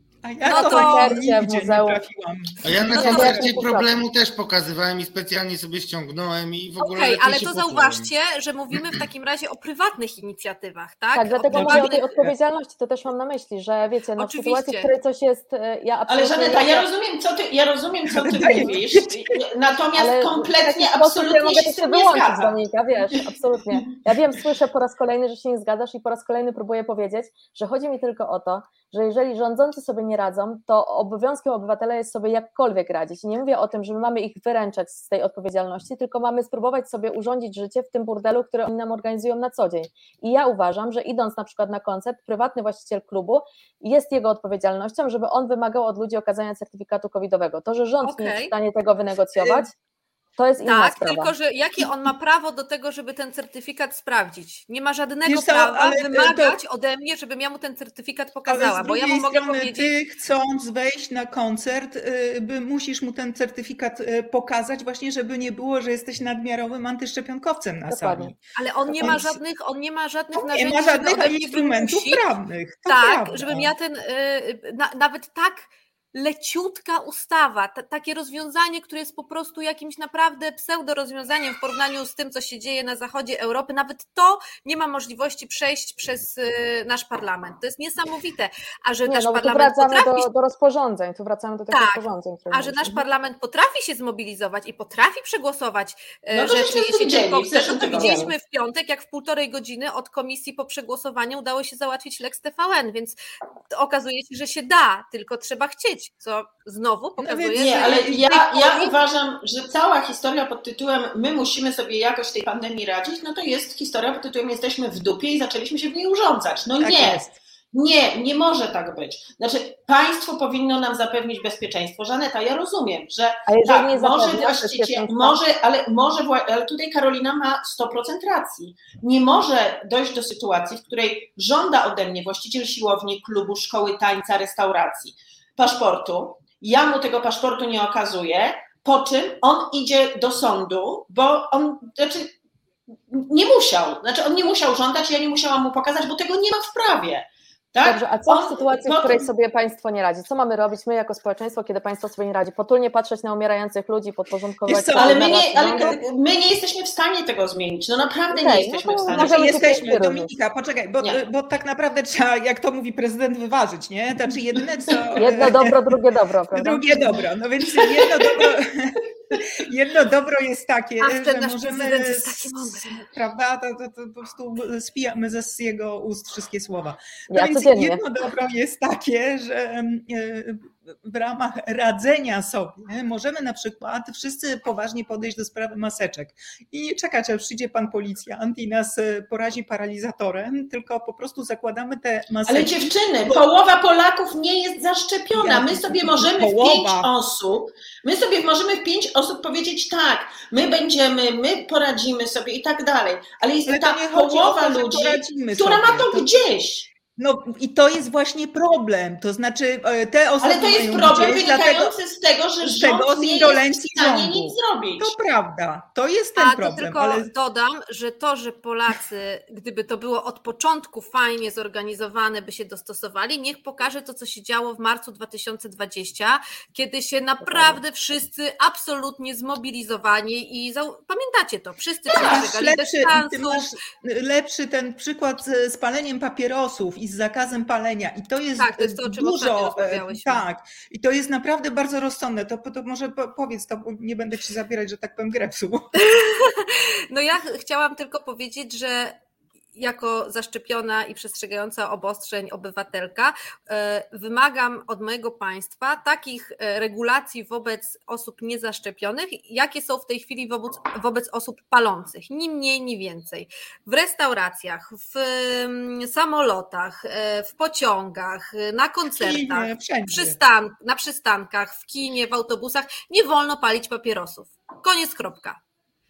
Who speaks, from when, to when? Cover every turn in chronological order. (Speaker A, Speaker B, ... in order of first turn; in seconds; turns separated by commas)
Speaker A: 0.2-3.5, Speaker B: 0.4-1.1, Speaker C: 0.5-2.0, Speaker D: 2.6-8.1, Speaker C: 2.9-3.9, Speaker B: 6.8-12.2, Speaker C: 11.2-16.9, Speaker A: 11.5-12.3, Speaker B: 14.2-14.9, Speaker E: 16.1-22.6, Speaker A: 18.1-19.4, Speaker C: 20.0-49.7, Speaker E: 23.7-24.0, Speaker B: 48.0-48.5, Speaker A: 49.4-49.7, Speaker C: 50.4-51.3, Speaker B: 50.6-59.9, Speaker A: 55.2-56.6, Speaker A: 58.5-68.4, Speaker C: 67.9-68.3, Speaker B: 68.5-72.3, Speaker C: 68.9-69.3, Speaker A: 69.0-69.4, Speaker A: 70.3-73.7, Speaker B: 72.9-90.3, Speaker C: 89.1-93.1, Speaker B: 91.7-103.2, Speaker E: 96.3-98.3, Speaker C: 97.9-98.3, Speaker B: 103.7-108.9, Speaker A: 107.2-108.3, Speaker E: 107.6-142.3, Speaker A: 116.8-117.4, Speaker C: 123.5-125.4, Speaker E: 143.1-149.3, Speaker C: 147.8-155.9, Speaker A: 154.7-155.9, Speaker E: 155.0-159.8, Speaker C: 158.3-160.3, Speaker A: 159.1-166.0, Speaker C: 165.2-167.2, Speaker A: 166.5-193.4, Speaker E: 167.8-168.4, Speaker B: 171.0-173.1, Speaker C: 177.3-178.0, Speaker E: 192.5-206.9, Speaker A: 195.3-197.1, Speaker A: 203.7-206.3, Speaker A: 207.2-211.9, Speaker E: 210.4-215.1, Speaker A: 212.6-217.3, Speaker B: 216.4-233.8, Speaker C: 227.4-227.8, Speaker A: 232.1-245.9, Speaker B: 238.6-240.4, Speaker B: 246.0-249.2, Speaker B: 249.8-275.6, Speaker A: 269.1-270.4